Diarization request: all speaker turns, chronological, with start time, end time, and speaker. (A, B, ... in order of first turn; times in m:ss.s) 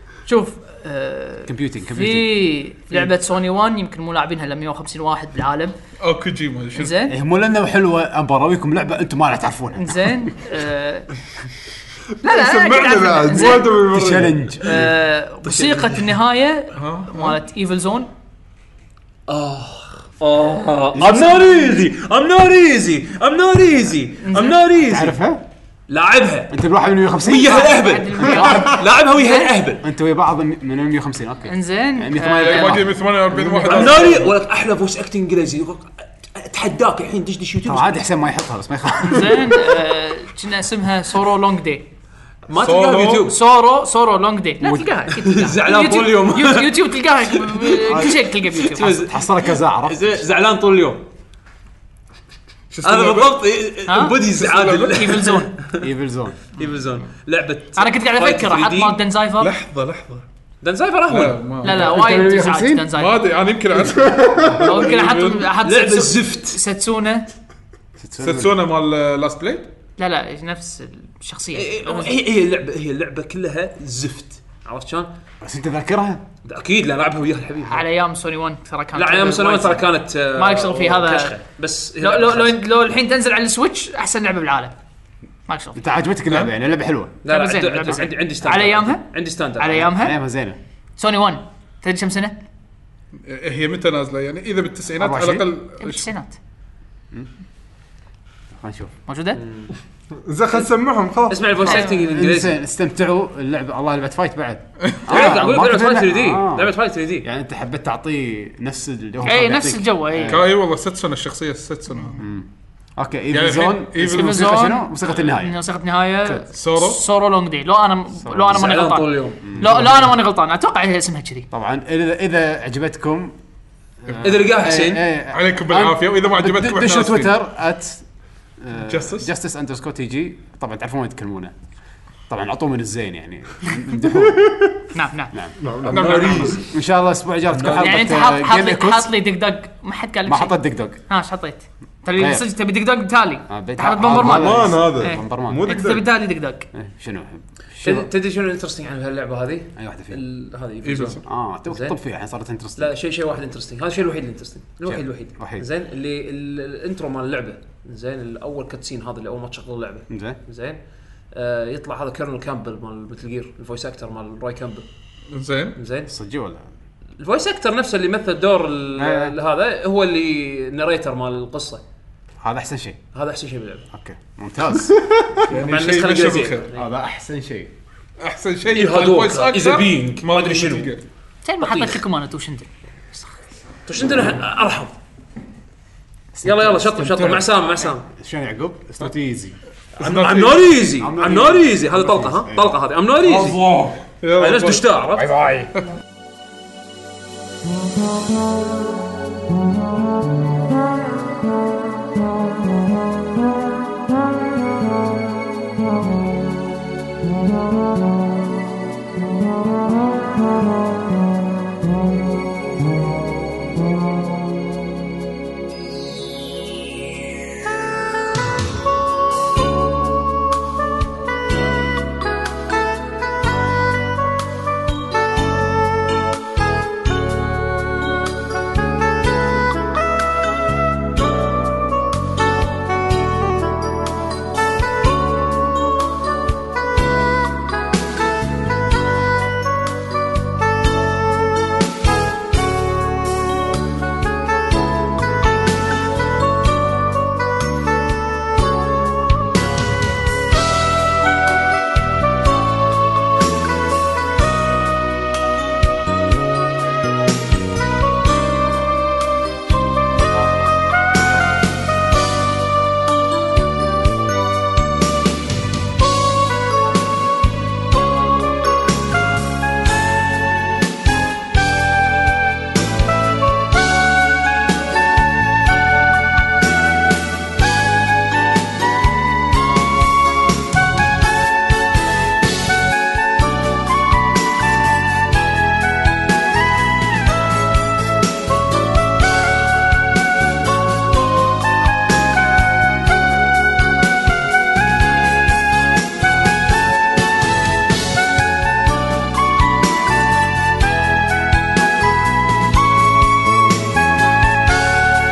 0:00.2-0:05.7 A
0:01.5-0:03.1 B
0:06.0-0:07.0 C
0:06.7-0:07.1 A
0:07.1-0:10.2 B
0:09.7-0:11.1 A
0:12.2-0:13.8 A
0:12.2-0:14.6 D
0:13.6-0:14.9 B
0:14.6-0:18.1 A
0:16.7-0:17.4 C
0:19.3-0:25.2 E
0:20.9-0:21.6 B
0:24.2-0:24.7 A
0:24.7-0:25.4 B
0:25.9-0:26.5 E
0:26.5-0:28.7 B
0:27.2-0:29.8 E
0:27.3-0:29.6 A
0:29.8-0:34.3 B
0:31.5-0:32.9 A
0:32.2-0:34.2 C
0:33.6-0:38.0 E
0:37.6-0:39.9 B
0:39.0-0:41.9 A
0:42.5-0:43.4 E
0:42.5-0:43.3 C
0:43.2-0:49.0 A
0:44.6-0:46.7 E
0:47.9-0:50.2 B
0:48.7-0:51.0 E
0:52.7-0:53.4 C
0:52.8-0:55.9 E
0:53.8-0:54.2 A
0:54.3-0:55.0 C
0:54.8-0:55.6 A
0:55.8-0:56.4 B
0:56.5-0:59.0 E
0:57.8-0:59.5 A
0:59.4-1:00.2 C
1:00.6-1:01.4 E
1:01.1-1:02.0 C
1:01.6-1:03.2 A
1:01.6-1:02.9 B
1:02.9-1:05.5 C
1:04.1-1:07.3 A
1:05.6-1:06.6 E
1:08.0-1:08.6 B
1:08.2-1:09.7 C
1:10.0-1:12.1 A
1:11.5-1:15.1 E
1:15.4-1:16.2 B
1:16.4-1:17.8 E
1:17.7-1:21.4 A
1:18.9-1:22.6 E
1:22.0-1:24.7 A
1:25.5-1:25.8 A
1:25.8-1:27.2 B
1:27.2-1:29.9 E
1:27.3-1:29.0 A
1:29.6-1:30.2 A
1:29.7-1:30.6 B
1:31.0-1:32.4 A
1:33.2-1:36.1 C
1:35.0-1:35.5 B
1:35.8-1:36.4 A
1:38.5-1:39.0 B
1:39.1-1:39.4 A
1:40.2-1:41.6 D
1:41.3-1:42.6 E
1:41.6-1:42.1 A
1:41.9-1:50.5 B
1:45.1-1:47.2 E
1:49.2-1:50.4 A
1:50.3-1:52.3 C
1:52.2-1:55.6 B
1:53.3-1:54.4 C
1:54.0-2:01.5 A
1:56.5-1:57.0 C
1:58.2-2:00.1 B
1:58.5-1:59.4 E
2:01.5-2:03.4 B
2:04.0-2:08.0 B
2:04.2-2:05.0 E
2:05.3-2:07.4 C
2:08.6-2:11.5 B
2:08.8-2:09.3 C
2:12.3-2:14.8 B
2:14.9-2:15.3 A
2:15.3-2:19.1 B
2:15.6-2:16.6 D
2:15.8-2:16.6 C
2:17.5-2:18.1 C
2:17.7-2:26.7 A
2:20.2-2:21.0 B
2:22.1-2:22.4 B
2:23.5-2:25.7 B
2:24.0-2:26.1 D
2:26.7-2:28.1 B
2:27.8-2:32.0 E
2:29.8-2:30.2 B
2:30.8-2:31.2 C
2:31.2-2:32.9 B
2:32.8-2:40.8 E
2:34.8-2:35.6 B
2:40.1-2:40.4 B
2:41.3-2:44.8 E
2:45.3-2:45.8 C
2:45.8-2:46.1 E
2:46.1-2:46.6 B
2:47.2-2:51.8 E
2:49.0-2:49.3 B
2:52.4-2:53.0 B
2:53.1-2:53.9 E
2:53.9-2:55.1 B
2:55.3-2:56.7 C
2:55.3-2:56.8 E
2:56.7-2:57.7 B
2:58.2-3:01.0 C
2:58.7-3:00.9 E
3:01.4-3:03.3 A
3:01.6-3:02.0 E
3:03.8-3:04.9 E
3:06.3-3:09.5 B
3:06.4-3:08.0 E
3:10.0-3:10.8 C
3:10.0-3:13.6 E
3:10.9-3:12.7 B
3:13.2-3:14.0 D
3:14.2-3:15.5 C
3:14.3-3:15.4 E